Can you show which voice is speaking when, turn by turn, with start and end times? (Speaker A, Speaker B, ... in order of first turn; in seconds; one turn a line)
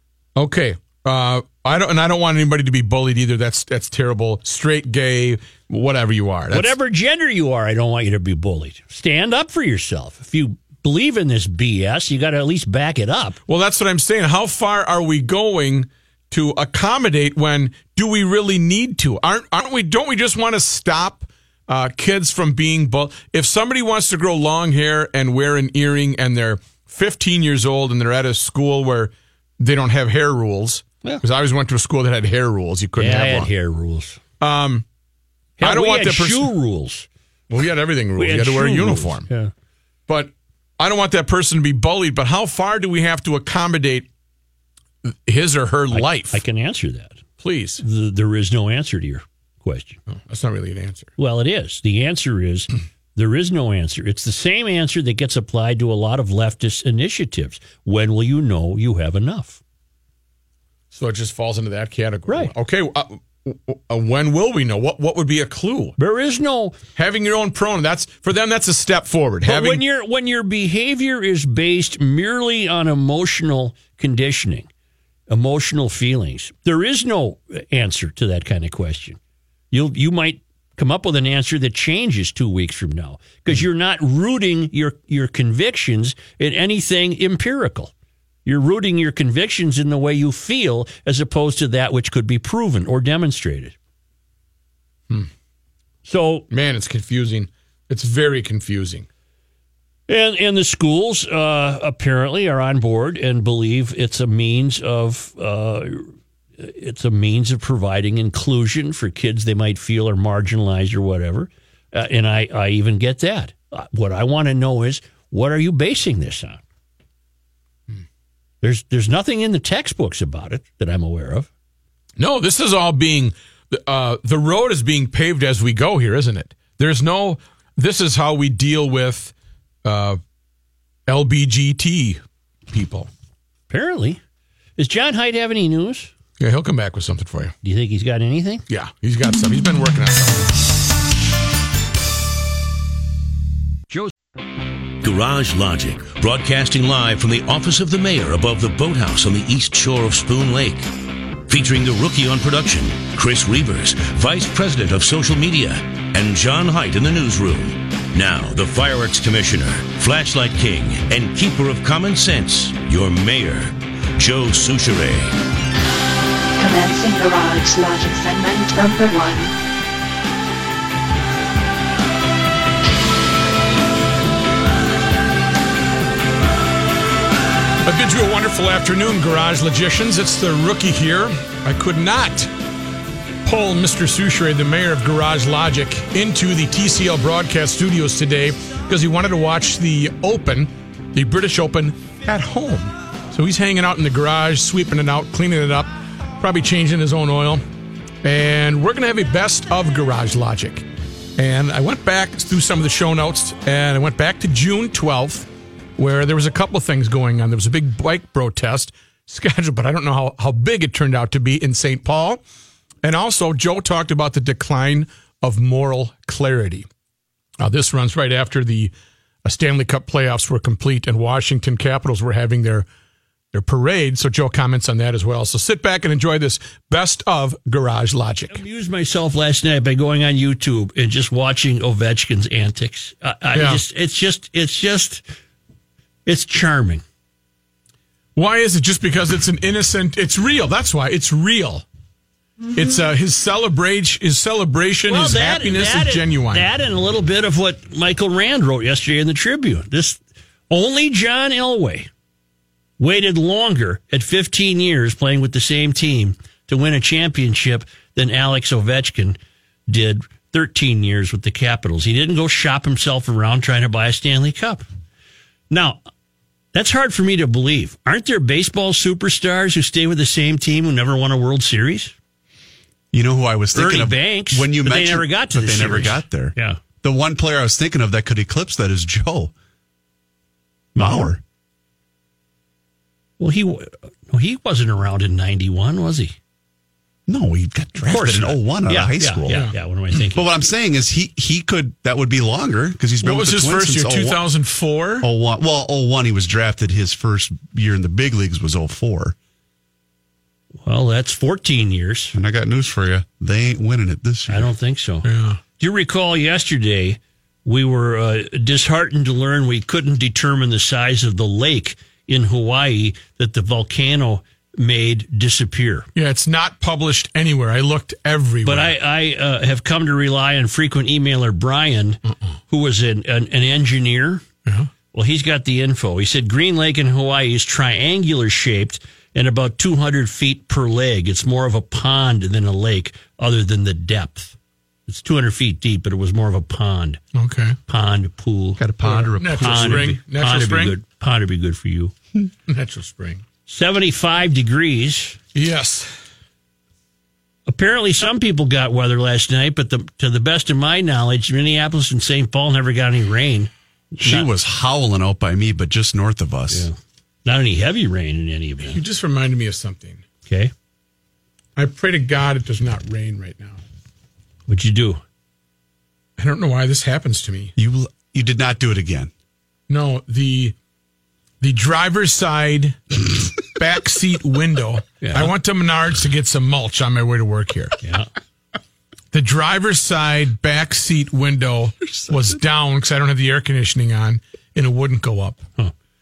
Speaker A: 0.4-6.8
Speaker B: 6.5-13.4
Speaker A: 13.5-33.5
Speaker B: 33.0-34.2
Speaker A: 34.4-34.8
Speaker B: 35.6-37.1
Speaker A: 35.6-36.5
Speaker A: 37.5-39.3
Speaker B: 38.2-39.5
Speaker A: 40.1-44.1
Speaker A: 45.0-46.4
Speaker B: 45.9-47.2
Speaker A: 47.4-47.8
Speaker B: 47.8-50.0
Speaker A: 50.1-51.1
Speaker B: 51.2-59.6
Speaker A: 60.9-66.0
Speaker B: 62.3-62.5
Speaker B: 66.0-66.8
Speaker A: 67.0-69.8
Speaker B: 69.4-74.7
Speaker B: 75.3-79.2
Speaker B: 79.7-87.9
Speaker B: 88.5-93.8
Speaker B: 96.0-96.5
Speaker A: 96.5-99.1
Speaker B: 100.1-106.1
Speaker B: 106.6-116.6
Speaker B: 118.6-121.5
Speaker A: 122.2-129.3
Speaker A: 129.8-130.2
Speaker A: 131.1-133.1
Speaker B: 133.7-134.2
Speaker B: 134.8-136.1
Speaker A: 136.4-137.5
Speaker B: 137.6-138.7
Speaker A: 138.7-140.5
Speaker C: 145.0-150.9
Speaker C: 151.5-165.3
Speaker D: 166.6-169.5
Speaker A: 177.8-182.5
Speaker A: 183.4-197.6
Speaker A: 198.2-200.8
Speaker A: 201.4-212.4
Speaker A: 213.0-216.9
Speaker A: 217.6-218.9
Speaker A: 219.4-222.9
Speaker A: 223.5-228.6
Speaker B: 228.5-235.2
Speaker A: 233.5-233.8
Speaker B: 236.3-237.0
Speaker A: 238.4-241.8
Speaker A: 242.7-246.7
Speaker B: 245.1-252.1
Speaker B: 253.0-264.9
Speaker B: 265.7-266.0
Speaker B: 266.7-272.1
Speaker E: 273.1-279.5
Speaker B: 273.7-276.8
Speaker B: 281.0-281.4
Speaker E: 281.0-281.4
Speaker B: 283.4-286.4
Speaker E: 287.3-289.7
Speaker B: 288.0-290.5
Speaker E: 290.2-294.4
Speaker A: 293.2-295.3
Speaker E: 295.2-299.4
Speaker B: 300.8-302.4
Speaker E: 302.3-304.7
Speaker B: 304.5-316.1
Speaker A: 305.2-305.6
Speaker A: 316.1-318.9
Speaker B: 318.6-324.4
Speaker B: 325.1-334.6
Speaker B: 335.1-337.2
Speaker A: 337.4-337.8
Speaker B: 337.9-342.1
Speaker E: 338.8-340.1
Speaker A: 339.0-341.0
Speaker A: 342.7-343.4
Speaker B: 343.7-345.4
Speaker A: 345.5-346.1
Speaker B: 347.7-354.5
Speaker E: 354.2-356.9
Speaker B: 356.7-359.0
Speaker A: 358.8-360.2
Speaker B: 360.5-360.7
Speaker A: 361.8-363.8
Speaker B: 364.7-365.2
Speaker A: 366.4-367.7
Speaker E: 367.8-369.3
Speaker A: 369.9-370.8
Speaker A: 371.6-378.0
Speaker B: 375.2-375.5
Speaker B: 378.0-378.3
Speaker A: 379.3-385.6